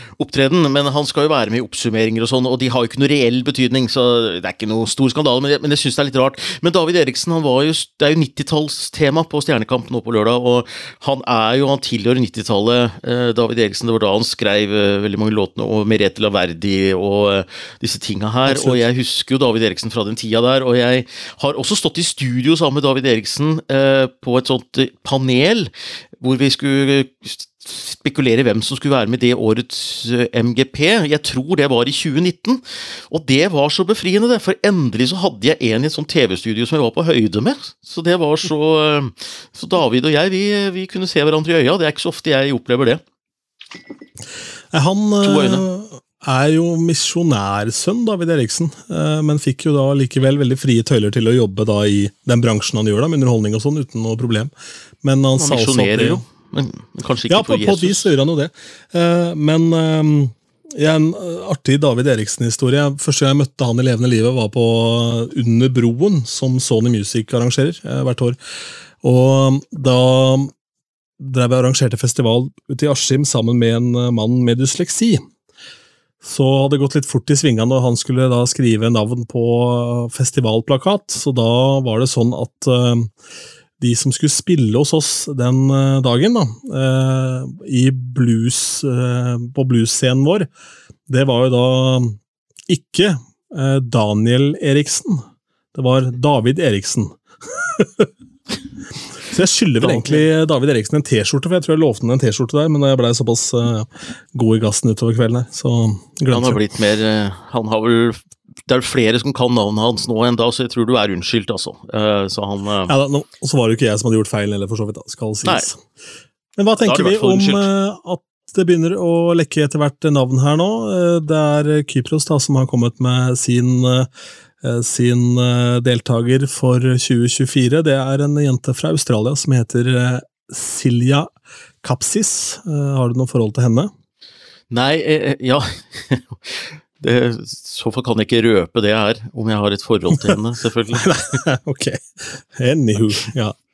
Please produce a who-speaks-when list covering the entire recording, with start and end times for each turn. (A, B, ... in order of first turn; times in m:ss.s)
0:00.2-0:43.0 A
0:18.5-0:18.8 B
0:44.7-0:54.5 B
0:45.2-0:45.6 A
0:55.0-0:56.2 B
0:55.3-0:58.1 A
0:57.3-1:08.4 B
1:09.0-1:10.5 B
1:11.2-1:15.2 B
1:16.2-1:23.1 B
1:23.8-1:30.5 B
1:31.1-1:38.1 B
1:39.2-1:46.6 B
1:39.8-1:40.2 A
1:46.3-1:52.9 A
1:52.9-1:55.8 B
1:56.6-2:04.1 B
1:56.8-1:57.7 A
2:04.6-2:11.3 B
2:11.8-2:13.9 B
2:14.7-2:21.4 A
2:20.9-2:23.6 B
2:23.0-2:23.2 A